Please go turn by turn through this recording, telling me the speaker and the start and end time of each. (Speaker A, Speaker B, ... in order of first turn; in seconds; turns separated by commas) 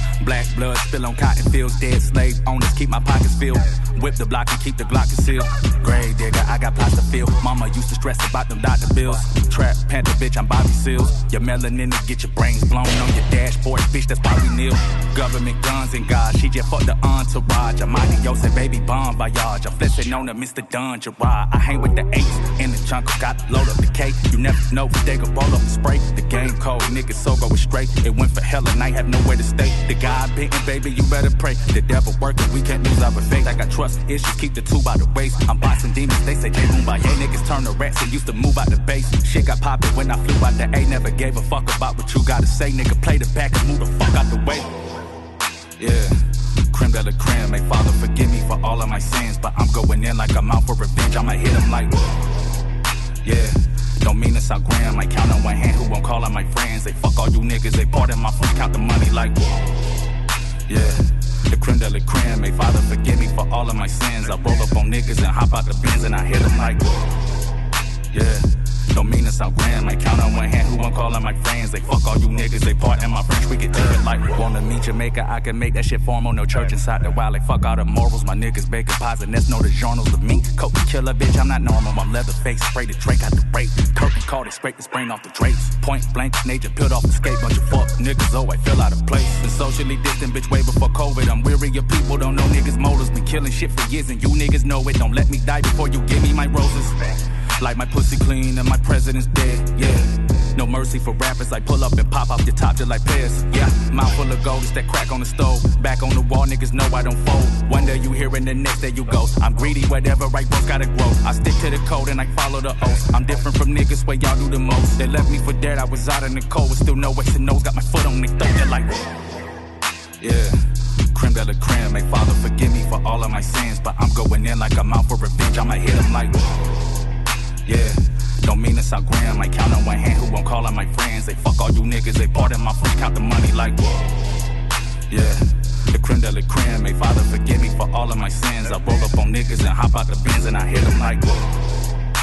Speaker A: 0.2-44.7, Speaker A: 45.8-46.2, Speaker A: 46.7-52.0, Speaker A: 53.2-59.5, Speaker A: 60.7-67.0, Speaker A: 68.1-97.0, Speaker A: 97.6-119.0, Speaker A: 120.2-120.6, Speaker A: 121.1-126.5, Speaker A: 127.7-134.0, Speaker A: 135.1-141.4